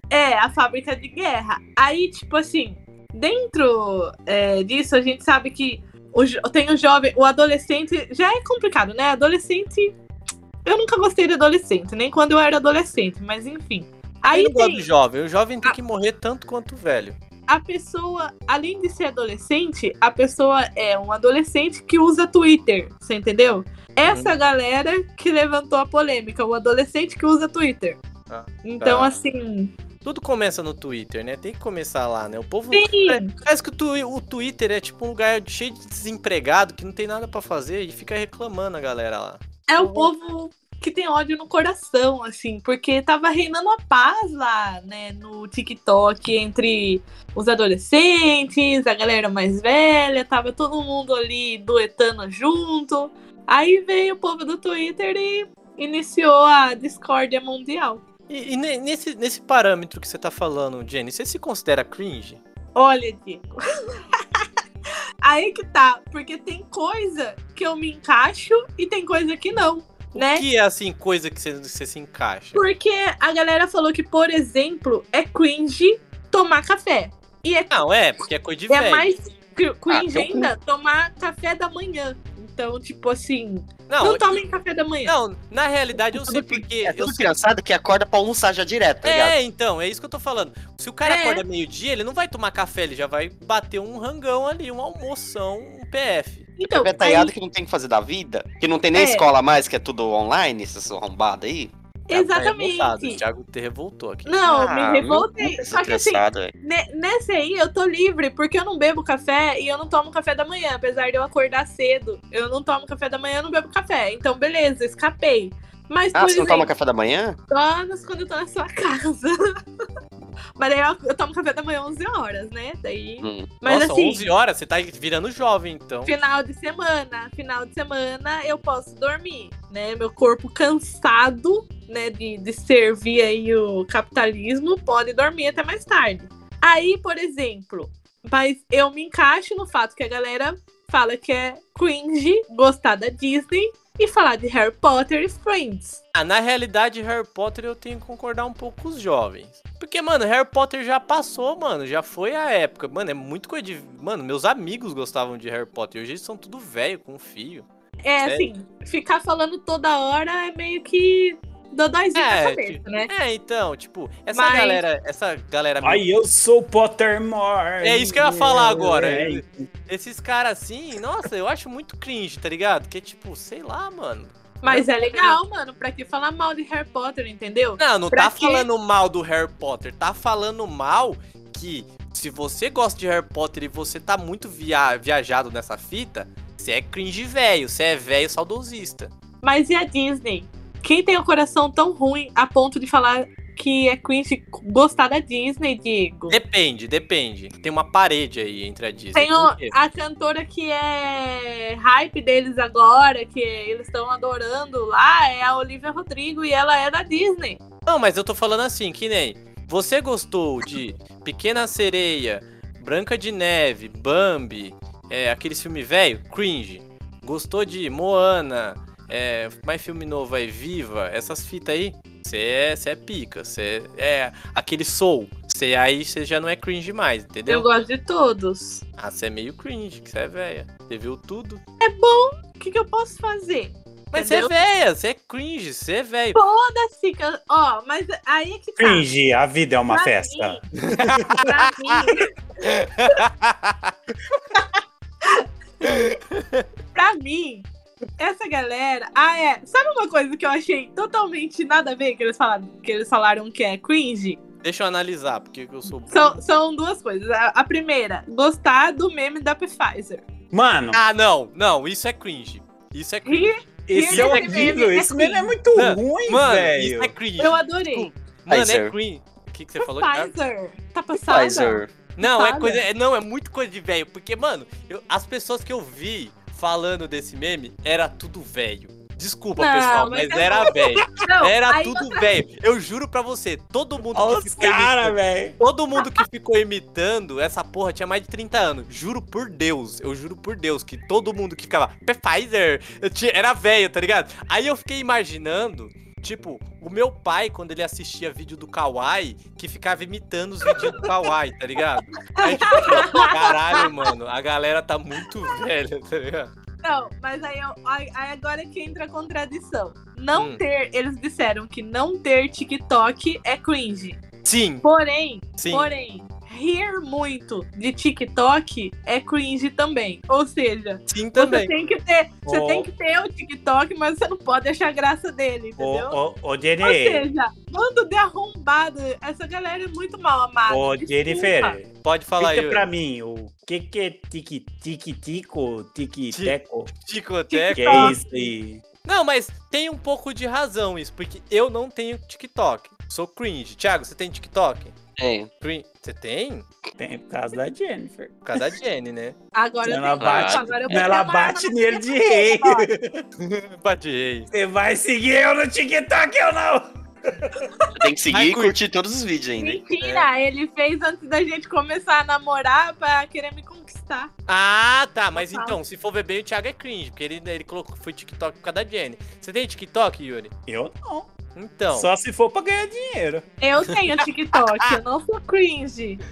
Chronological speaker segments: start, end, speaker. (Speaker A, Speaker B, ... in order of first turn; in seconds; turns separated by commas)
Speaker A: 0.1-9.9, Speaker A: 10.6-14.8, Speaker B: 14.3-17.2, Speaker A: 17.5-28.0, Speaker B: 24.1-24.3, Speaker B: 28.3-29.1, Speaker A: 28.6-29.7, Speaker B: 30.0-40.1, Speaker A: 32.7-33.3, Speaker A: 39.7-58.0, Speaker B: 58.3-62.4, Speaker A: 62.7-64.4, Speaker A: 65.2-70.5, Speaker B: 70.1-72.6, Speaker A: 72.5-77.8, Speaker B: 77.7-79.1, Speaker A: 78.7-85.1, Speaker C: 79.9-80.5, Speaker B: 83.9-84.4, Speaker B: 85.0-87.3, Speaker C: 86.1-89.3, Speaker B: 89.0-96.5, Speaker A: 91.0-91.4, Speaker A: 96.6-97.3, Speaker C: 96.7-101.7, Speaker A: 98.9-99.3, Speaker A: 102.1-103.2, Speaker B: 102.1-104.4, Speaker A: 104.2-116.7, Speaker C: 104.5-106.5, Speaker C: 116.1-117.4, Speaker A: 117.5-119.3, Speaker A: 120.6-124.2, Speaker C: 123.2-123.5, Speaker B: 123.7-126.1, Speaker A: 126.0-146.0, Speaker B: 146.1-157.7, Speaker A: 158.0-163.1, Speaker B: 158.2-158.5, Speaker B: 162.1-166.0, Speaker A: 164.3-164.8, Speaker D: 165.8-169.7, Speaker B: 167.8-175.4, Speaker A: 174.6-178.7, Speaker B: 177.8-189.1, Speaker A: 189.4-196.4, Speaker B: 196.3-199.7, Speaker A: 199.1-207.6, Speaker B: 207.8-227.7, Speaker A: 227.5-228.8, Speaker B: 229.0-231.6, Speaker A: 231.8-234.5, Speaker B: 234.1-236.4, Speaker A: 236.3-239.1, Speaker D: 238.8-241.4, Speaker A: 239.9-240.7, Speaker B: 240.9-241.6, Speaker A: 241.3-242.3, Speaker B: 242.6-243.9, Speaker A: 244.5-245.4, Speaker B: 245.8-246.6, Speaker A: 246.9-247.7, Speaker A: 248.2-254.4, Speaker B: 254.6-256.4, Speaker A: 256.1-260.2, Speaker D: 260.5-261.0, Speaker B: 260.9-264.8, Speaker A: 263.2-265.6, Speaker D: 263.9-267.1, Speaker B: 265.7-270.3, Speaker A: 267.4-268.1, Speaker C: 268.5-268.9, Speaker A: 269.8-272.8, Speaker C: 271.2-271.9, Speaker B: 272.2-306.5, Speaker A: 279.6-282.2, Speaker D: 284.1-285.6, Speaker A: 300.7-301.1, Speaker A: 302.4-303.9, Speaker A: 306.8-314.2, Speaker B: 310.3-310.6, Speaker B: 314.4-314.8, Speaker A: 314.8-326.2, Speaker B: 315.6-315.9, Speaker B: 321.1-321.7, Speaker D: 322.4-322.9, Speaker D: 325.8-327.3, Speaker A: 326.8-331.8, Speaker D: 330.7-336.9, Speaker B: 332.0-332.9, Speaker B: 336.3-338.2, Speaker A: 337.5-338.4, Speaker D: 337.7-338.8, Speaker B: 339.0-344.9, Speaker C: 345.2-345.5, Speaker B: 345.6-346.6, Speaker D: 347.0-348.6, Speaker B: 348.4-349.4, Speaker A: 349.5-352.9, Speaker D: 349.8-353.2, Speaker C: 350.2-351.1, Speaker B: 353.7-354.5, Speaker D: 354.5-357.7, Speaker C: 358.0-359.8, Speaker B: 358.3-358.7, Speaker A: 359.6-364.3, Speaker B: 364.5-370.5, Speaker A: 365.3-365.8, Speaker D: 370.7-371.3, Speaker B: 371.6-372.1, Speaker D: 371.9-373.4, Speaker A: 373.6-376.2, Speaker B: 374.5-375.0